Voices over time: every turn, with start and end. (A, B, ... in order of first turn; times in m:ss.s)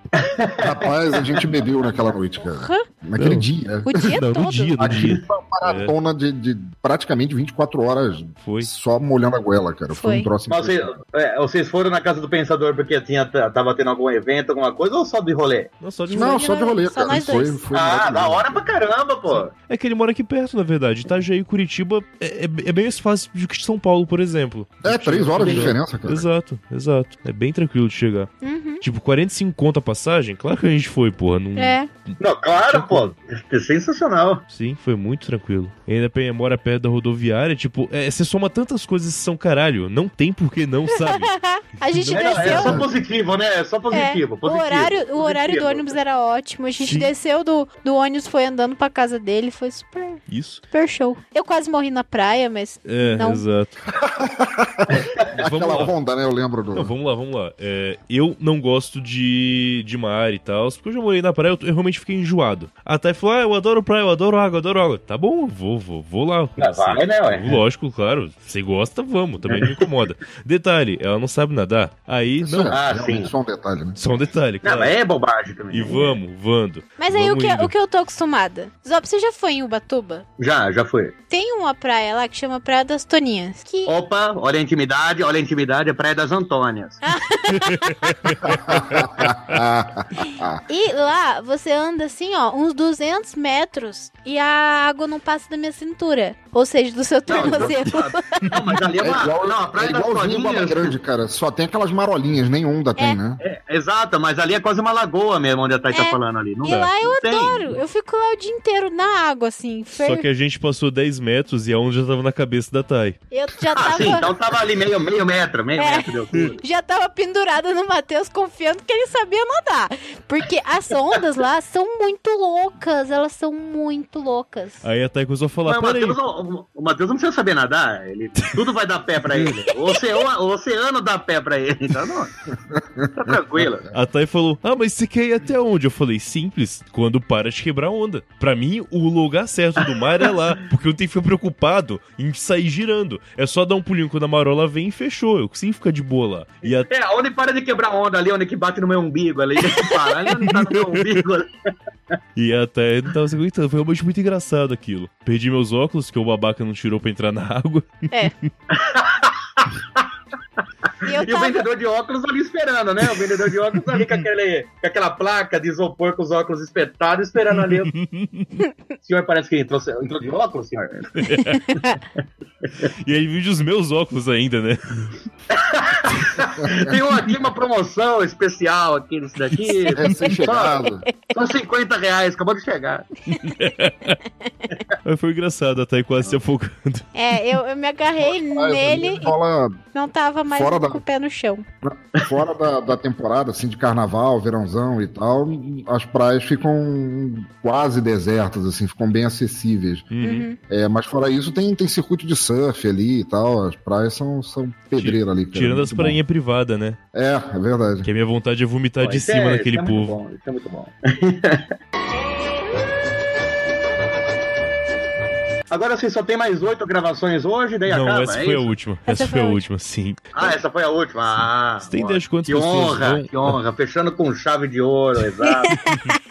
0:00.2-0:01.5 A
0:00.6-0:04.1 B
0:02.5-0:02.8 C
0:03.2-0:03.5 D
0:03.8-0:04.8 C
0:04.0-0:05.9 D
0:04.8-0:10.9 B
0:08.4-0:08.7 D
0:09.9-0:10.3 C
0:10.5-0:15.7 A
0:15.8-0:16.4 D
0:16.1-0:18.6 B
0:16.1-0:17.6 C
0:17.7-0:19.5 A
0:19.7-0:32.2 D
0:24.8-0:26.3 B
0:25.4-0:25.7 A
0:28.4-0:28.8 C
0:31.6-0:31.9 C
0:32.2-0:34.4 A
0:32.7-0:33.1 D
0:34.5-0:41.3 D
0:41.0-0:42.8 C
0:42.0-0:45.9 A
0:42.1-0:42.7 D
0:42.4-0:42.9 B
0:43.9-0:53.4 C
0:46.9-0:47.1 D
0:50.3-0:50.6 D
0:52.9-0:53.8 D
0:54.0-0:56.9 B
0:55.4-0:55.9 D
0:56.8-1:12.8 D
1:06.6-1:07.6 A
1:09.5-1:09.8 A
1:12.4-1:14.0 B
1:12.7-1:13.3 A
1:14.0-1:14.9 D
1:14.6-1:16.2 A
1:15.7-1:17.7 D
1:17.0-1:20.2 C
1:20.4-1:21.2 A
1:21.3-1:23.9 C
1:23.9-1:27.0 A
1:27.0-1:28.4 C
1:28.3-1:29.6 D
1:28.4-1:30.6 B
1:30.7-1:38.6 C
1:37.3-1:40.9 A
1:37.3-1:37.8 B
1:39.0-1:43.4 B
1:43.4-1:47.8 A
1:45.9-1:50.3 C
1:50.0-1:53.2 D
1:53.3-1:54.3 C
1:53.7-1:56.6 A
1:55.8-2:04.9 C
2:04.8-2:06.2 D
2:05.7-2:12.3 A
2:12.7-2:13.0 B
2:13.2-2:13.9 A
2:13.9-2:26.9 D
2:26.9-2:31.5 A
2:30.5-2:31.0 D
2:32.4-2:38.3 D
2:38.7-2:40.0 A
2:41.0-2:47.9 A
2:41.0-2:41.6 C
2:47.9-2:48.5 D
2:49.0-2:51.1 A
2:51.2-2:51.6 D
2:53.0-2:55.1 D
2:55.5-3:03.0 A
3:00.0-3:01.1 B
3:03.5-3:04.2 D
3:05.0-3:07.1 D
3:07.2-3:09.4 C
3:08.2-3:09.8 B
3:09.9-3:11.6 C
3:10.5-3:11.0 B
3:11.8-3:20.1 B
3:20.1-3:20.5 D
3:20.2-3:20.6 C
3:20.7-3:26.2 B
3:25.0-3:27.0 D
3:27.1-3:28.1 B
3:28.0-3:30.2 D
3:29.0-3:31.7 A
3:35.7-3:38.7 A
3:37.9-3:40.6 D
3:39.1-3:39.6 C
3:40.3-3:45.8 A
3:41.8-3:43.6 D
3:45.6-3:46.2 C